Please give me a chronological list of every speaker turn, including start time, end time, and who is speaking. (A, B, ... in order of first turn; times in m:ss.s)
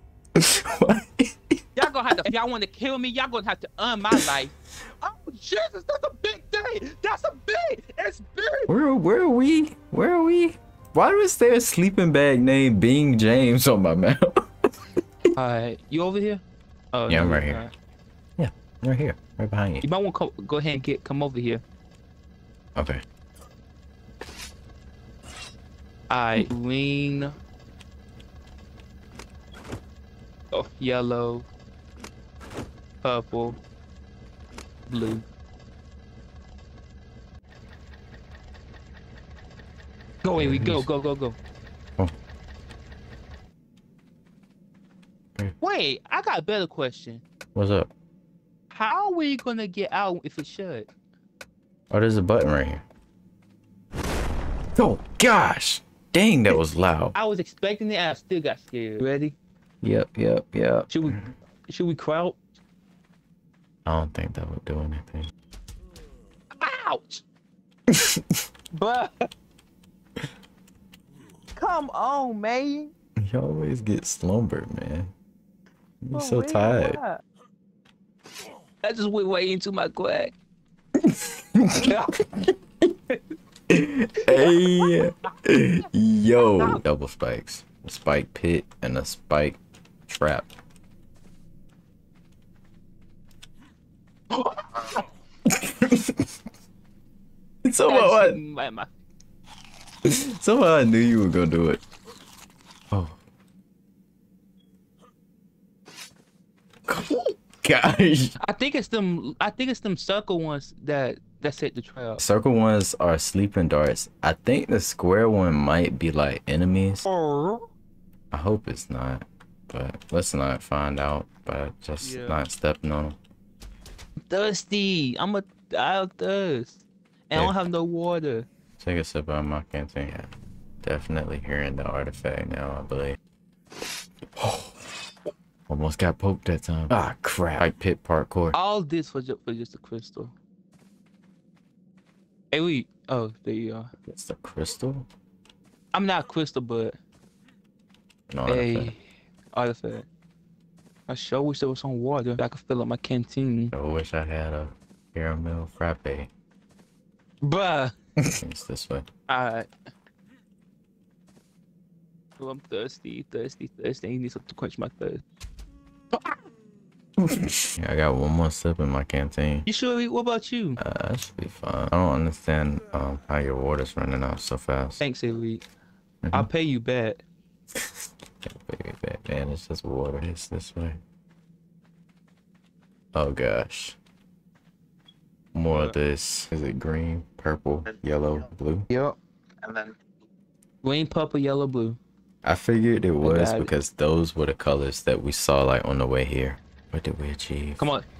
0:00.4-0:01.6 A
0:01.8-0:08.7 B
0:08.7-0:14.4 A
0:15.4-0:17.7 B
0:17.1-0:17.6 A
0:18.4-0:19.8 A
0:19.8-0:21.6 B
0:22.8-0:23.0 A
0:26.1-0:27.3 B
0:30.5-0:31.5 B
0:33.0-0:33.6 B
0:34.9-0:35.2 B
0:40.2-0:41.4 B
0:40.4-0:40.9 A
0:45.6-0:47.2 B
0:47.6-0:47.9 A
0:48.7-0:50.9 B
0:51.9-0:52.8 A
0:54.8-0:57.2 A
0:57.2-0:59.4 B
0:59.8-1:01.3 A
1:00.9-1:02.4 B
1:03.9-1:05.3 A
1:06.6-1:07.2 B
1:07.9-1:08.2 A
1:08.7-1:09.3 B
1:11.6-1:12.9 B
1:13.2-1:15.1 A
1:16.0-1:17.0 A
1:16.1-1:17.2 B
1:18.8-1:20.4 B
1:21.0-1:21.9 A
1:21.8-1:22.5 B
1:23.7-1:30.5 A
1:24.3-1:24.9 B
1:26.4-1:26.8 B
1:34.3-1:35.0 B
1:35.5-1:36.2 A
1:37.6-1:38.4 A
1:37.9-1:38.9 B
1:40.0-1:41.8 A
1:42.9-1:43.2 A
1:46.9-1:48.4 A
1:48.4-1:52.2 B
1:52.2-1:57.1 A
1:57.0-1:57.7 B
1:58.3-2:03.2 A
2:02.0-2:02.4 B
2:04.3-2:08.5 B
2:08.8-2:10.3 A
2:10.8-2:13.2 A
2:14.4-2:14.7 A
2:15.7-2:18.6 A
2:18.5-2:20.3 B
2:22.5-2:23.9 B
2:24.0-2:25.1 A
2:25.9-2:27.0 B
2:28.3-2:28.9 A
2:28.5-2:29.0 B
2:29.5-2:30.1 B
2:31.1-2:33.7 B
2:33.7-2:36.3 A
2:37.4-2:38.0 B
2:38.3-2:39.1 A
2:39.3-2:39.7 B
2:42.4-2:45.2 B
2:47.7-2:49.7 A
2:49.7-2:50.8 B
2:50.8-2:55.0 A
2:55.0-2:55.6 B
2:56.2-2:56.5 A
2:56.3-2:57.2 B
2:57.8-3:01.0 A
3:03.1-3:04.0 A
3:05.5-3:08.9 A
3:05.7-3:06.0 B
3:08.9-3:10.0 B
3:10.8-3:12.0 B
3:12.4-3:17.9 A
3:13.2-3:13.7 B
3:17.8-3:18.1 B